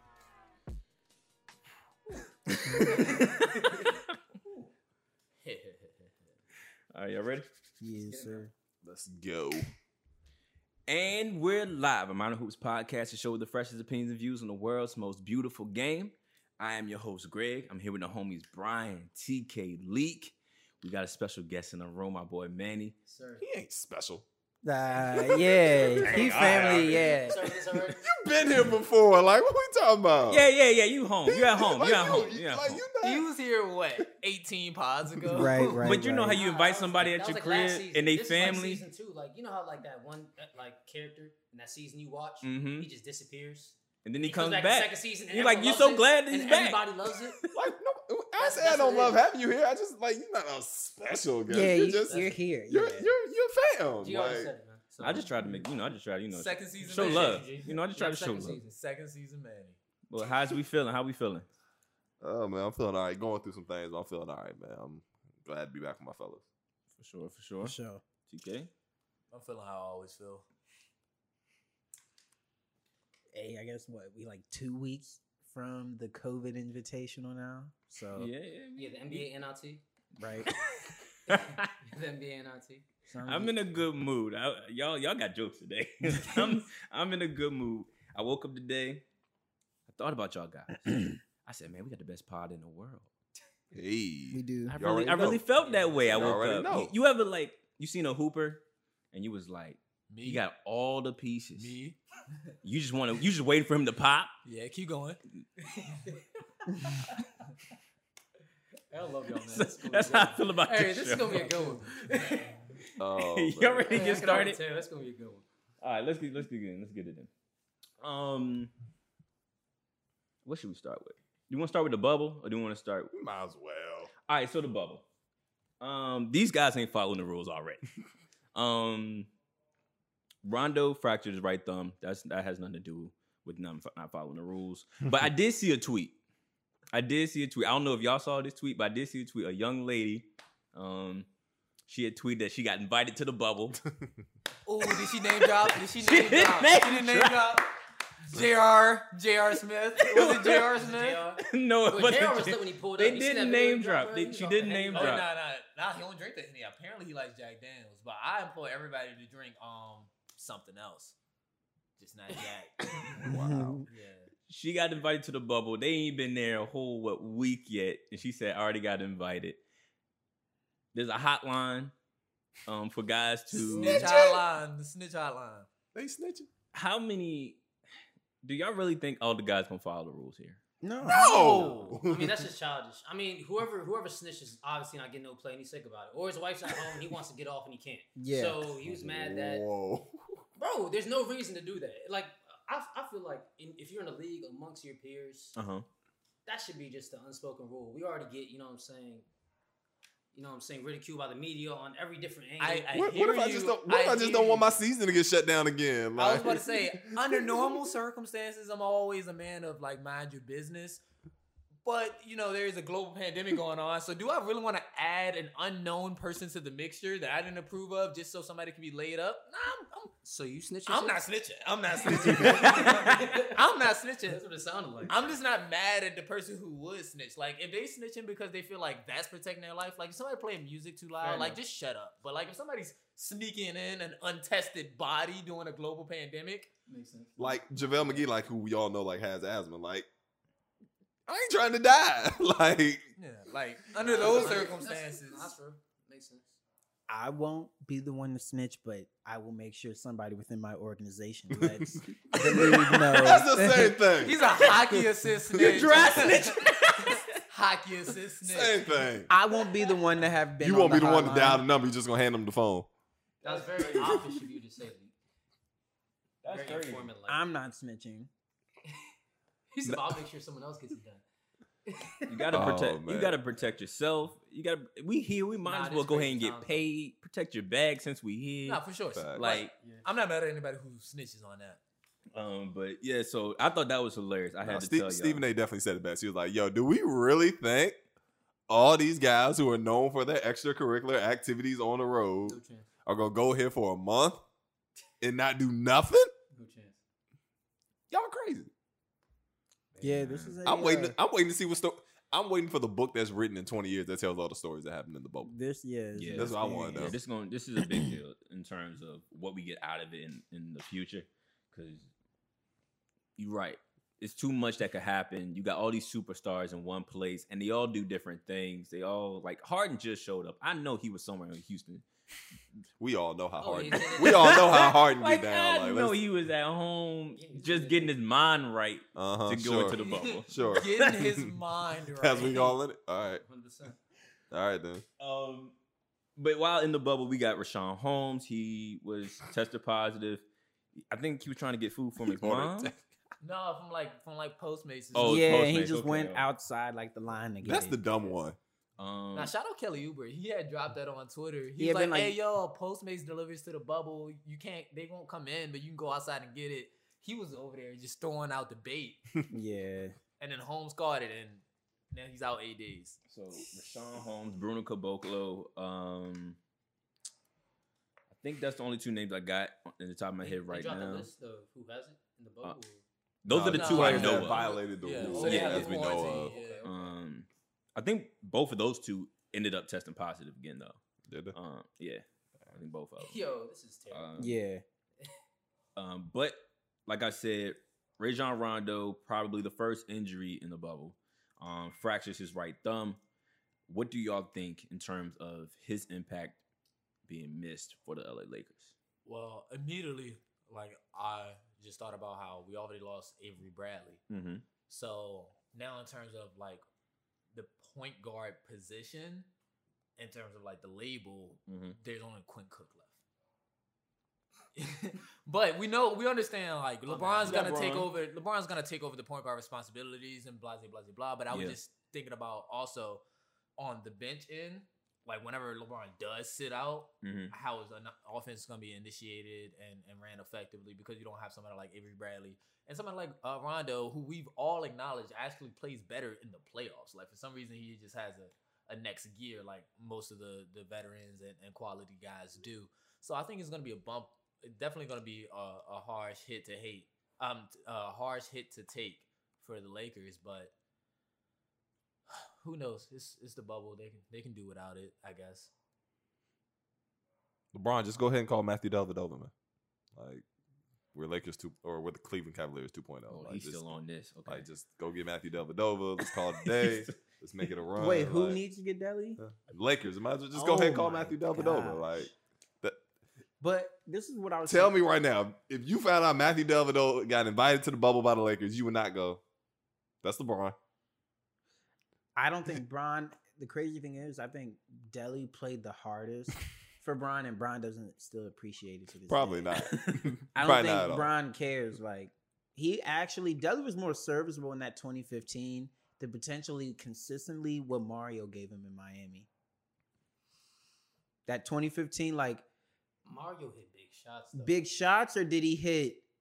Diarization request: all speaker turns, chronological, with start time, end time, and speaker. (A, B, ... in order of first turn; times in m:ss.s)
0:02.5-0:04.0 A
0:02.9-0:03.4 B
0:05.4-0:06.1 B
0:06.9-0:07.5 A
0:07.8-0:08.5 C
0:08.1-0:08.4 D
0:08.8-0:09.7 E
0:10.9-0:23.0 A
0:23.0-0:23.5 D
0:23.4-0:24.2 E
0:24.6-0:27.4 C
0:25.0-0:27.1 E
0:25.8-0:28.0 D
0:26.0-0:27.2 A
0:27.9-0:30.5 E
0:30.3-0:32.8 A
0:31.3-0:33.3 E
0:33.0-0:35.9 B
0:35.2-0:35.5 E
0:35.3-0:36.4 C
0:35.6-0:47.4 D
0:35.7-0:38.8 A
0:42.4-0:42.9 A
0:44.0-0:47.6 A
0:47.5-0:54.5 E
0:48.4-0:49.2 D
0:51.5-0:53.1 C
0:52.0-0:52.4 D
0:54.0-0:55.3 D
0:55.0-0:58.6 A
0:56.3-0:57.6 B
0:56.8-0:58.7 D
0:58.5-0:59.8 B
1:00.1-1:01.5 A
1:02.2-1:06.4 E
1:07.0-1:07.8 A
1:07.6-1:08.0 C
1:08.3-1:08.7 A
1:09.3-1:10.5 B
1:13.3-1:18.3 C
1:18.1-1:19.3 A
1:18.8-1:19.8 D
1:20.2-1:20.5 C
1:21.3-1:21.7 A
1:21.3-1:22.9 D
1:23.1-1:23.8 C
1:23.3-1:29.0 A
1:29.9-1:33.1 A
1:33.7-1:35.4 E
1:34.3-1:34.8 C
1:34.7-1:41.8 A
1:35.6-1:36.4 D
1:36.1-1:36.9 E
1:40.1-1:40.4 B
1:41.6-1:42.0 B
1:42.6-1:44.3 A
1:44.4-1:45.2 B
1:48.9-1:52.7 D
1:49.5-1:51.5 A
1:51.4-1:51.8 B
1:53.0-1:54.1 E
1:53.2-1:54.6 A
1:53.9-1:55.5 D
1:55.8-1:57.3 A
1:58.0-1:58.7 A
2:00.4-2:03.1 A
2:03.1-2:04.1 E
2:04.3-2:05.0 A
2:05.8-2:07.8 A
2:08.6-2:09.3 A
2:10.4-2:16.2 A
2:16.9-2:21.3 A
2:21.9-2:23.8 A
2:24.7-2:27.7 B
2:24.8-2:27.6 A
2:28.2-2:31.2 B
2:30.0-2:30.8 A
2:30.3-2:35.2 D
2:31.4-2:35.3 A
2:34.6-2:41.2 B
2:42.0-2:43.3 B
2:43.0-2:43.8 E
2:43.2-2:43.8 C
2:43.9-2:44.3 B
2:44.5-2:49.6 A
2:50.9-2:51.9 A
2:52.7-2:54.1 A
2:53.5-2:54.4 E
2:53.6-2:55.7 B
2:55.9-2:56.5 E
2:56.7-2:57.6 A
2:58.4-3:00.6 A
3:00.8-3:01.6 C
3:01.0-3:02.4 E
3:01.2-3:01.9 B
3:02.0-3:09.6 D
3:08.2-3:08.7 C
3:08.9-3:10.4 E
3:10.6-3:15.6 D
3:15.6-3:15.8 A
3:16.5-3:19.3 D
3:20.3-3:23.0 D
3:22.6-3:24.8 B
3:22.9-3:27.8 E
3:26.2-3:31.0 B
3:31.8-3:40.1 B
3:40.2-3:41.2 D
3:40.9-3:44.4 B
3:42.1-3:43.6 D
3:42.5-3:43.2 A
3:44.2-3:45.2 D
3:45.1-3:56.7 B
3:51.2-3:51.6 D
3:56.9-3:58.2 D
3:57.4-4:00.1 E
4:01.3-4:03.0 E
4:03.2-4:05.5 B
4:04.0-4:06.6 D
4:07.1-4:14.0 C
4:11.5-4:16.2 E
4:14.1-4:19.1 B
4:15.5-4:17.4 A
4:18.4-4:19.3 E
4:19.3-4:21.6 C
4:20.6-4:22.9 E
4:23.4-4:25.1 D
4:23.4-4:24.3 A
4:23.9-4:24.2 E
4:26.4-4:27.1 A
4:26.4-4:27.4 D
4:27.3-4:28.3 C
4:29.7-4:31.2 D
4:31.9-4:32.7 D
4:32.3-4:39.7 A
4:32.5-4:33.4 E
4:35.6-4:36.9 D
4:38.7-4:41.8 B
4:39.1-4:39.6 E
4:39.8-4:40.1 D
4:42.3-4:45.4 A
4:44.6-4:48.0 E
4:48.7-4:54.4 E
4:52.5-4:52.9 D
4:55.2-4:56.3 E
4:56.5-4:57.0 D
4:58.1-4:58.7 E
5:00.0-5:00.2 D
5:00.0-5:01.2 C
5:00.6-5:05.5 E
5:05.4-5:07.2 C
5:06.2-5:12.1 A
5:06.3-5:07.2 E
5:13.4-5:22.0 A
5:23.0-5:26.2 E
5:23.6-5:24.8 D
5:24.2-5:31.1 A
5:27.4-5:28.1 D
5:29.2-5:31.5 E
5:30.6-5:32.8 B
5:32.2-5:33.4 E
5:33.4-5:34.0 D
5:34.5-5:35.0 E
5:35.2-5:35.8 A
5:36.4-5:40.4 A
5:41.1-5:42.9 A
5:42.2-5:43.0 E
5:43.4-5:45.5 B
5:45.1-5:46.5 A
5:45.2-5:48.0 C
5:47.6-5:48.6 E
5:49.0-5:49.5 A
5:49.3-5:59.2 B
5:51.8-5:52.4 C
5:59.5-6:00.2 C
6:00.4-6:03.2 B
6:03.3-6:06.6 A
6:08.3-6:11.3 A
6:10.4-6:13.0 D
6:13.4-6:14.7 A
6:13.5-6:16.5 E
6:13.7-6:16.9 B
6:14.0-6:17.1 D
6:15.2-6:16.0 A
6:16.8-6:21.0 A
6:21.3-6:21.6 E
6:21.5-6:23.4 A
6:23.2-6:24.3 D
6:24.1-6:24.6 A
6:24.4-6:24.8 C
6:26.0-6:33.2 A
6:33.9-6:36.6 A
6:37.3-6:38.9 A
6:39.3-6:44.2 B
6:44.3-6:44.7 A
6:44.9-6:46.8 B
6:47.5-6:49.5 B
6:50.2-6:53.2 B
6:51.7-6:52.0 A
6:54.8-7:03.2 B
6:57.1-6:57.8 D
6:57.4-6:58.1 A
7:01.5-7:01.8 A
7:03.8-7:30.7 B
7:07.2-7:07.5 A
7:32.3-7:35.7 B
7:37.7-7:39.5 E
7:40.2-7:40.4 E
7:41.1-7:43.8 E
7:43.3-7:44.7 A
7:44.5-7:48.6 E
7:46.2-7:47.2 A
7:48.0-7:49.4 C
7:49.4-7:53.0 E
7:50.5-7:52.3 C
7:53.6-7:54.9 C
7:54.7-7:59.4 E
8:00.2-8:00.8 E
8:02.4-8:09.9 C
8:09.3-8:11.3 E
8:09.9-8:10.3 A
8:10.6-8:19.5 C
8:21.5-8:22.6 C
8:23.2-8:24.8 D
8:24.5-8:26.2 C